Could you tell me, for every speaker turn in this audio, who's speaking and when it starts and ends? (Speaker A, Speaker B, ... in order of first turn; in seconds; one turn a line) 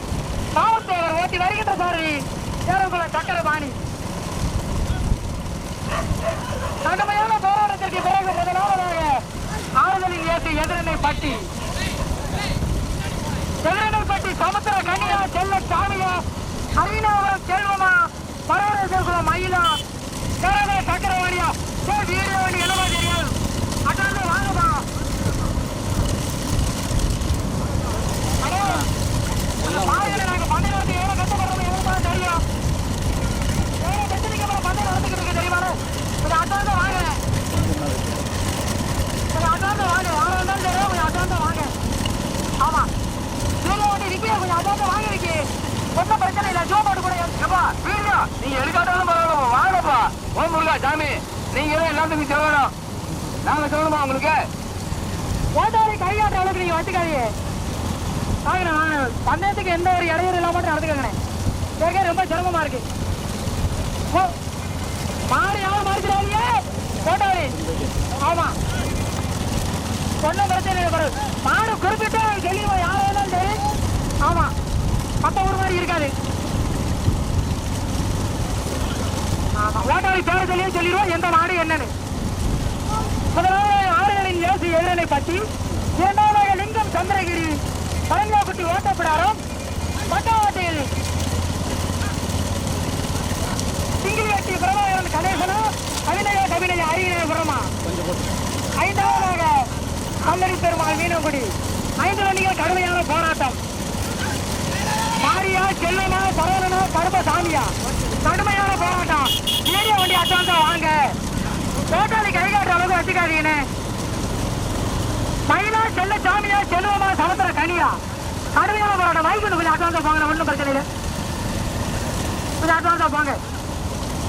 Speaker A: 0.5-3.8
Speaker A: 6.8-9.2
Speaker A: 9.8-11.5
Speaker A: 13.6-19.8
Speaker A: 20.4-24.9
Speaker A: 28.4-28.9
Speaker B: 29.6-30.2
Speaker A: 29.6-32.4
Speaker A: 33.8-37.2
Speaker B: 37.5-38.3
Speaker A: 39.3-41.7
Speaker A: 42.6-42.9
Speaker A: 43.6-47.4
Speaker C: 47.4-52.7
Speaker C: 53.4-54.4
Speaker A: 55.5-57.3
Speaker A: 58.5-61.2
Speaker A: 61.8-62.9
Speaker A: 65.3-67.5
Speaker B: 67.5-68.0
Speaker A: 68.2-68.6
Speaker A: 70.2-73.6
Speaker A: 74.2-74.5
Speaker A: 75.2-76.1
Speaker A: 79.5-81.9
Speaker A: 83.3-89.4
Speaker A: 90.1-90.9
Speaker A: 94.0-97.7
Speaker B: 97.8-98.3
Speaker A: 98.8-99.7
Speaker A: 100.2-103.6
Speaker A: 105.2-111.2
Speaker A: 111.9-113.7
Speaker A: 115.5-118.0
Speaker A: 118.5-120.9
Speaker A: 122.6-123.4